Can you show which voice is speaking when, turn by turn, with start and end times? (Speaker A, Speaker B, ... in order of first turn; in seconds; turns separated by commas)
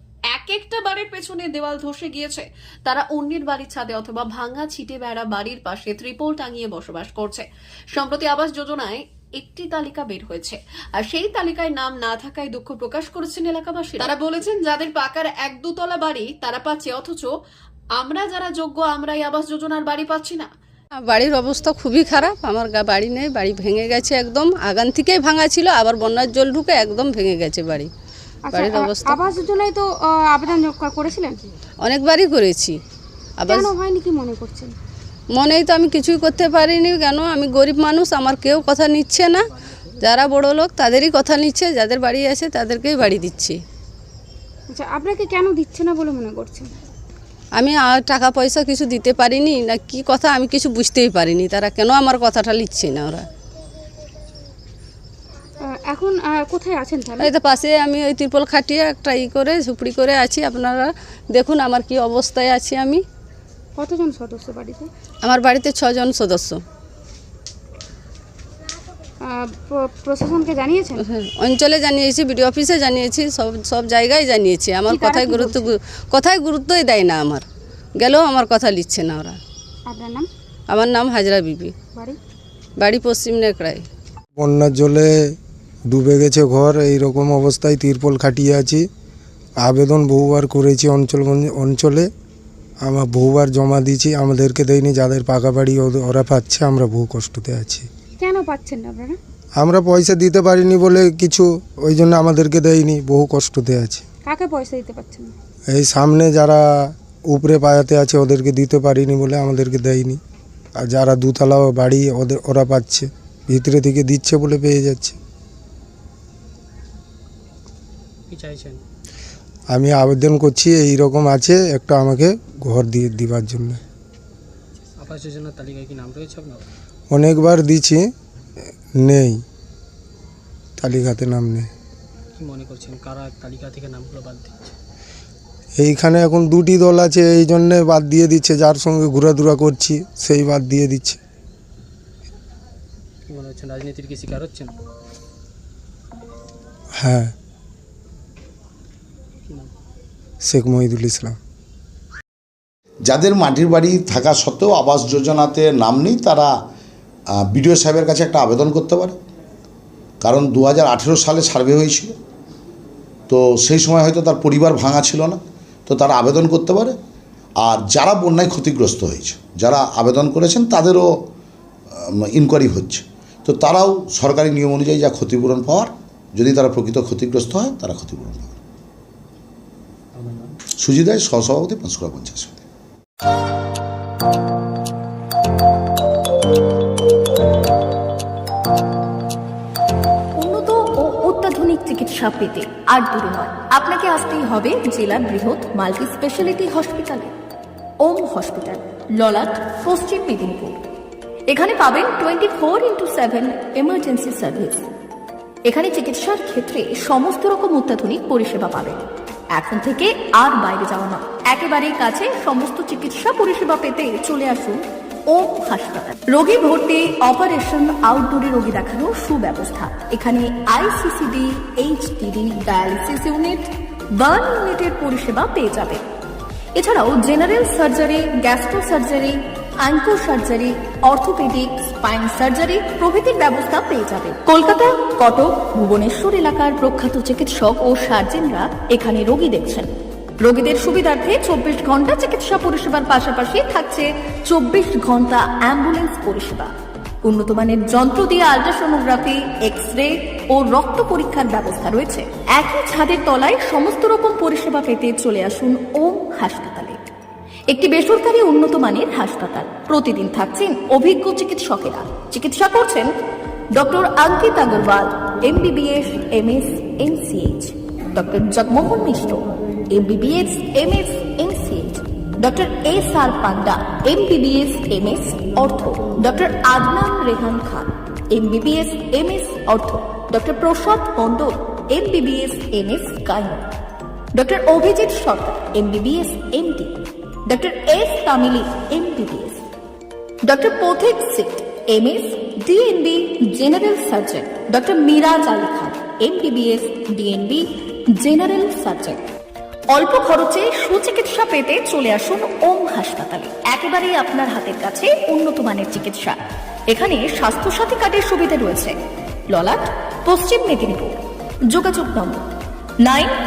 Speaker A: 0.3-17.3, Speaker A: 18.0-20.5, Speaker B: 21.1-27.9, Speaker C: 28.5-31.4, Speaker B: 28.5-29.1, Speaker B: 31.8-32.8, Speaker B: 33.4-33.7, Speaker C: 33.5-34.8, Speaker B: 35.3-39.4, Speaker B: 40.0-43.6, Speaker C: 44.7-46.7, Speaker B: 47.6-53.2, Speaker C: 55.7-57.3, Speaker B: 57.2-63.0, Speaker C: 63.8-64.9, Speaker B: 65.2-66.6, Speaker C: 69.3-71.0, Speaker B: 71.0-77.4, Speaker C: 74.9-75.7, Speaker B: 78.0-79.4, Speaker C: 79.9-80.3, Speaker B: 80.7-81.7, Speaker B: 82.8-83.8, Speaker D: 84.4-85.3, Speaker D: 85.9-88.8, Speaker D: 89.6-92.1, Speaker D: 92.8-97.9, Speaker C: 98.2-99.2, Speaker D: 99.6-104.0, Speaker C: 104.2-105.3, Speaker D: 105.7-110.2, Speaker D: 110.8-115.2, Speaker E: 118.3-118.8, Speaker D: 119.7-123.8, Speaker E: 124.8-126.7, Speaker D: 127.1-128.1, Speaker D: 129.0-129.4, Speaker D: 130.8-131.7, Speaker E: 132.4-134.7, Speaker D: 135.8-141.2, Speaker E: 143.3-144.7, Speaker D: 147.0-147.3, Speaker D: 150.4-151.4, Speaker F: 153.1-156.5, Speaker F: 157.4-159.2, Speaker F: 160.2-162.2, Speaker F: 163.3-167.0, Speaker F: 167.6-171.1, Speaker F: 171.9-178.6, Speaker E: 180.2-180.5, Speaker F: 180.8-182.6, Speaker G: 190.4-197.3, Speaker G: 198.0-200.8, Speaker G: 201.5-204.8, Speaker G: 205.7-209.0, Speaker G: 209.5-226.0, Speaker G: 226.8-239.9, Speaker G: 240.4-246.7, Speaker G: 247.2-257.0, Speaker G: 257.7-263.1, Speaker G: 263.8-283.6, Speaker G: 284.4-289.6, Speaker G: 290.5-297.7, Speaker G: 298.2-299.2, Speaker G: 299.9-306.4, Speaker G: 306.9-308.9, Speaker G: 309.5-311.2, Speaker G: 311.7-312.4, Speaker G: 313.0-313.3